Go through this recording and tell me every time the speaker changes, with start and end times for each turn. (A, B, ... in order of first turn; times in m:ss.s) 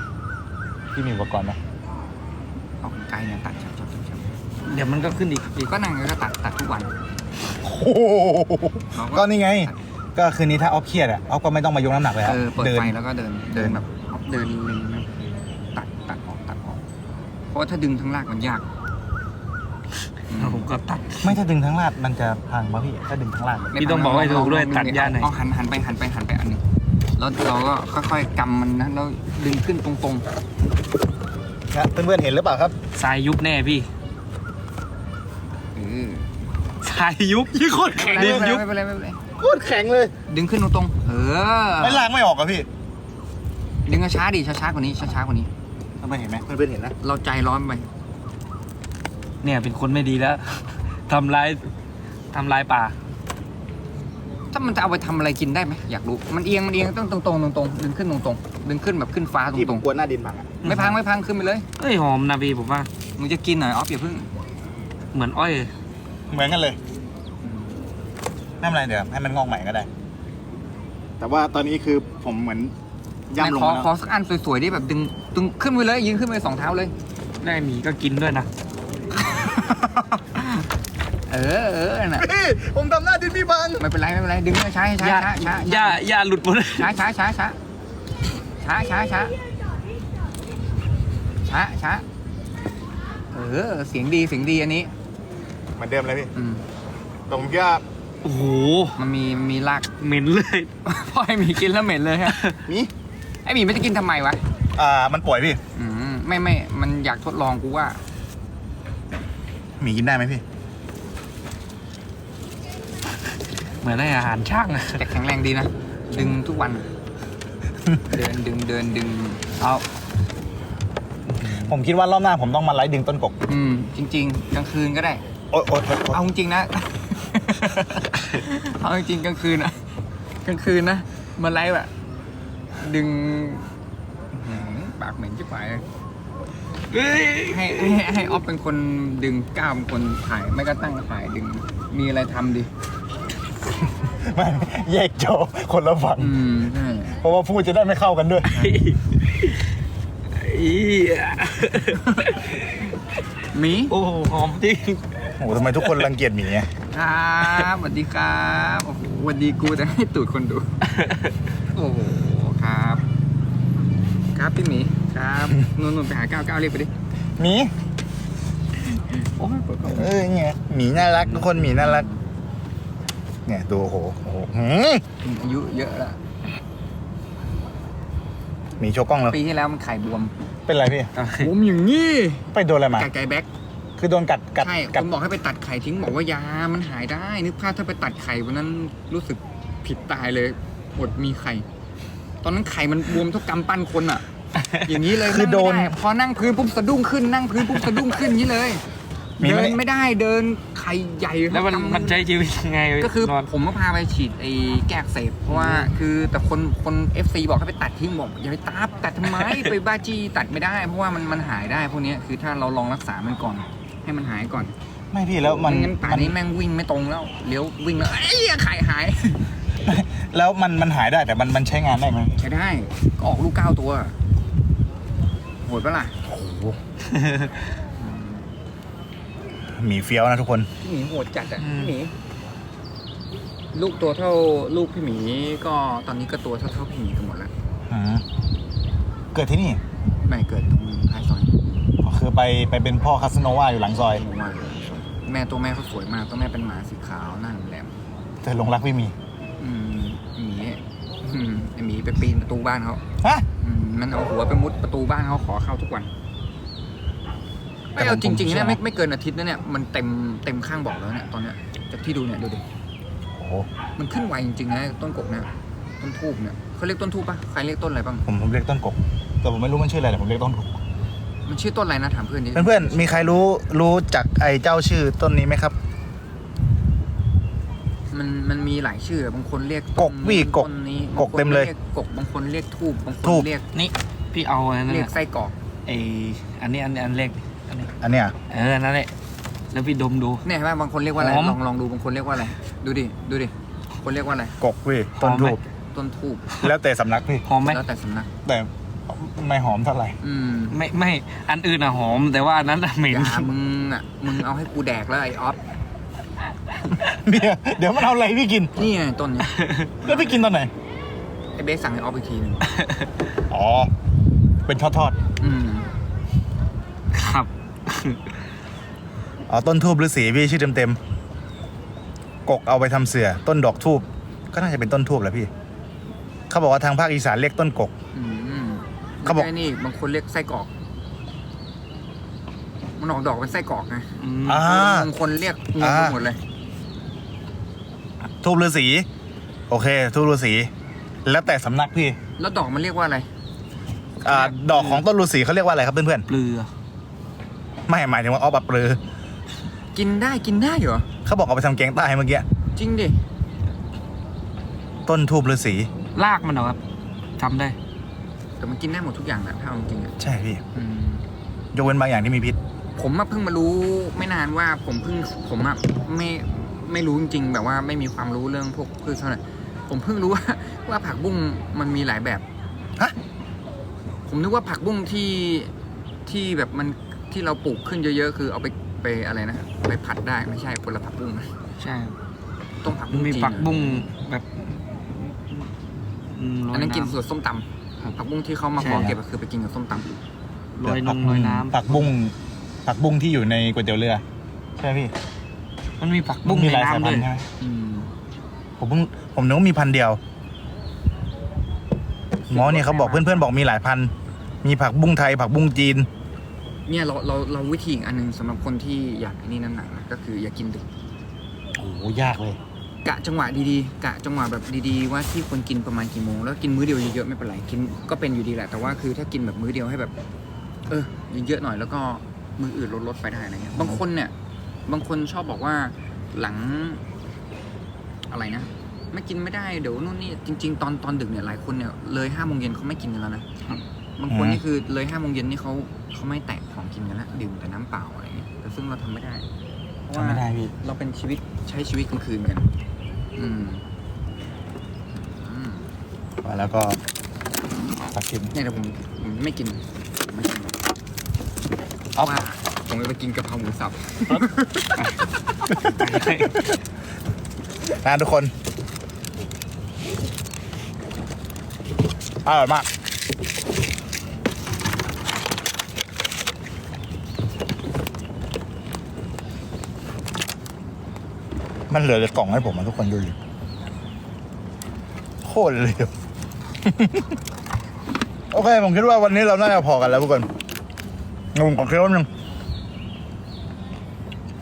0:01.0-0:01.6 A
0:02.8-0:04.4 B
0:04.7-0:05.6 C
0:05.6-0:06.9 B
0:07.6-0:12.9 A
0:08.9-0:09.8 B
0:12.2-0:15.1 B
0:13.5-0:13.8 A
0:15.7-0:16.8 B
0:17.5-0:18.6 B
0:20.3-0:20.7 B
0:20.3-0:21.4 C
0:21.2-0:23.7 A
0:23.7-0:26.6 B
0:23.8-0:25.3 C
0:27.2-0:30.2 B
0:31.7-0:32.8 A
0:33.0-0:33.9 C
0:35.7-0:36.3 B
0:36.8-0:38.6 C
0:37.5-0:38.6 A
0:38.0-0:39.2 B
0:39.4-0:40.1 A
0:40.3-0:42.1 B
0:41.8-0:42.7 A
0:43.8-0:45.5 B
0:46.0-0:47.0 A
0:47.0-0:47.9 B
0:49.4-0:51.7 C
0:52.3-0:53.0 C
0:54.5-0:59.9 B
0:59.5-1:00.6 A
1:00.6-1:01.0 C
1:00.6-1:01.7 B
1:01.8-1:02.9 C
1:03.2-1:04.3 B
1:05.1-1:05.7 C
1:06.3-1:06.8 A
1:07.4-1:07.8 B
1:08.6-1:09.9 A
1:11.2-1:12.7 A
1:13.3-1:13.9 A
1:13.4-1:16.9 B
1:17.4-1:18.5 C
1:19.4-1:20.2 A
1:20.4-1:20.6 B
1:21.3-1:22.3 B
1:22.2-1:23.8 A
1:23.8-1:26.0 B
1:25.0-1:26.9 C
1:26.8-1:27.6 B
1:28.6-1:29.4 B
1:31.4-1:32.0 B
1:33.3-1:34.9 B
1:35.8-1:36.3 A
1:36.4-1:36.6 B
1:37.3-1:37.8 A
1:38.2-1:39.0 C
1:39.0-1:39.9 B
1:40.0-1:40.7 C
1:40.8-1:42.5 B
1:42.3-1:42.6 C
1:42.6-1:42.9 A
1:43.4-1:44.4 B
1:44.8-1:45.6 A
1:45.7-1:48.0 B
1:49.8-1:50.4 A
1:53.8-1:55.0 C
1:54.9-1:56.9 B
1:58.1-1:59.8 B
2:01.4-2:03.4 A
2:03.5-2:05.2 B
2:05.5-2:06.2 A
2:06.1-2:09.9 B
2:10.4-2:11.9 B
2:12.8-2:13.7 B
2:14.3-2:15.8 B
2:16.9-2:18.1 C
2:17.4-2:22.7 B
2:23.9-2:26.4 A
2:26.2-2:27.2 B
2:27.1-2:28.5 A
2:28.5-2:29.6 C
2:28.5-2:28.8 B
2:30.3-2:32.8 C
2:31.8-2:32.3 B
2:33.5-2:34.0 B
2:33.9-2:35.2 C
2:35.4-2:36.7 A
2:35.8-2:36.1 C
2:36.9-2:40.8 B
2:41.0-2:41.3 C
2:41.7-2:43.0 B
2:44.3-2:46.9 B
2:47.4-2:47.7 A
2:48.9-2:50.2 B
2:49.9-2:52.1 A
2:51.6-2:52.2 B
2:53.5-2:55.0 A
2:55.2-2:56.2 B
2:58.8-2:59.4 A
2:59.3-3:00.4 B
3:00.7-3:01.1 A
3:01.2-3:01.5 C
3:01.4-3:03.5 B
3:02.5-3:03.1 A
3:04.0-3:05.1 A
3:04.6-3:11.7 B
3:12.4-3:14.2 B
3:14.6-3:14.9 C
3:14.8-3:18.8 B
3:15.1-3:16.0 A
3:19.4-3:19.8 A
3:19.4-3:22.2 B
3:21.5-3:23.5 C
3:23.0-3:34.7 B
3:25.5-3:25.9 C
3:35.1-3:36.4 A
3:35.4-3:39.5 B
3:39.8-3:42.4 A
3:42.4-3:44.2 B
3:45.6-3:46.2 B
3:46.2-3:46.8 A
3:47.1-3:47.5 C
3:48.0-3:48.4 B
3:49.8-3:50.7 A
3:50.8-3:52.2 B
3:51.6-3:51.9 C
3:53.7-3:57.5 B
3:57.9-3:58.2 A
3:59.3-3:59.8 A
4:00.2-4:01.6 B
4:02.0-4:04.2 A
4:04.1-4:07.9 B
4:08.4-4:09.2 A
4:09.6-4:13.0 B
4:13.6-4:16.1 B
4:18.0-4:18.8 A
4:18.0-4:22.6 B
4:23.4-4:23.7 A
4:24.0-4:28.3 B
4:28.3-4:30.8 A
4:31.4-4:33.4 B
4:32.5-4:35.8 A
4:38.1-4:43.7 B
4:40.0-4:41.7 A
4:43.2-4:43.5 A
4:43.7-4:45.1 C
4:44.9-4:45.6 B
4:45.9-4:47.9 C
4:48.0-4:48.4 A
4:48.5-4:49.1 C
4:49.7-4:50.4 C
4:50.4-4:54.6 B
4:51.2-4:51.6 C
4:54.6-4:55.6 A
4:55.2-4:55.6 C
4:55.9-4:56.4 B
4:56.6-4:57.5 A
4:57.4-4:57.8 C
4:57.6-4:58.3 B
4:58.4-5:00.2 A
5:00.2-5:00.8 B
5:00.7-5:03.5 C
5:03.1-5:05.6 B
5:07.0-5:08.7 A
5:08.8-5:10.4 B
5:09.5-5:09.9 C
5:10.0-5:10.7 A
5:11.6-5:12.7 B
5:12.8-5:13.1 C
5:13.5-5:13.9 A
5:14.7-5:15.2 A
5:15.4-5:15.9 B
5:17.1-5:18.2 C
5:19.5-5:21.0 A
5:22.5-5:25.5 A
5:26.5-5:27.9 A
5:28.1-5:30.7 B
5:33.0-5:36.4 B
5:34.2-5:34.6 C
5:34.4-5:35.1 A
5:35.8-5:36.2 A
5:38.4-5:39.1 A
5:39.7-5:40.7 A
5:41.2-5:42.2 A
5:42.4-5:43.3 B
5:44.2-5:45.0 C
5:44.2-5:46.3 A
5:46.3-5:46.7 C
5:47.9-5:49.0 A
5:49.9-5:51.1 B
5:51.2-5:52.4 A
5:52.8-5:53.2 B
5:55.1-5:55.9 A
5:56.2-5:56.8 C
5:57.4-5:57.8 C
5:58.6-6:00.2 B
6:00.2-6:00.6 A
6:00.7-6:01.2 B
6:01.7-6:02.6 A
6:03.0-6:12.4 B
6:14.3-6:15.7 B
6:16.3-6:21.5 B
6:21.8-6:22.2 C
6:22.8-6:24.1 B
6:23.1-6:25.7 C
6:26.3-6:27.2 C
6:26.7-6:30.2 B
6:28.8-6:29.1 C
6:28.8-6:29.2 A
6:30.8-6:32.1 C
6:30.8-6:34.2 A
6:34.8-6:35.1 A
6:36.0-6:37.3 C
6:36.4-6:37.5 A
6:37.6-6:38.1 B
6:38.8-6:40.2 A
6:42.5-6:43.5 B
6:42.5-6:44.1 A
6:44.6-6:46.1 A
6:46.9-6:50.9 B
6:51.8-6:52.6 A
6:53.0-7:00.1 B
7:00.9-7:04.3 B
7:04.9-7:07.0 B
7:08.3-7:13.6 B
7:14.2-7:19.5 B
7:14.3-7:14.6 A
7:20.1-7:22.7 B
7:20.1-7:20.7 A
7:23.4-7:23.8 B
7:25.1-7:25.9 B
7:26.4-7:27.0 A
7:28.1-7:28.5 A
7:28.5-7:30.8 B
7:32.2-7:34.7 B
7:35.7-7:36.4 A
7:35.8-7:36.7 C
7:37.9-7:38.5 A
7:42.4-7:42.9 A
7:51.9-7:53.4 A
7:55.4-7:56.1 A
7:56.8-7:57.4 A
7:58.5-8:00.5 A
8:01.5-8:02.3 A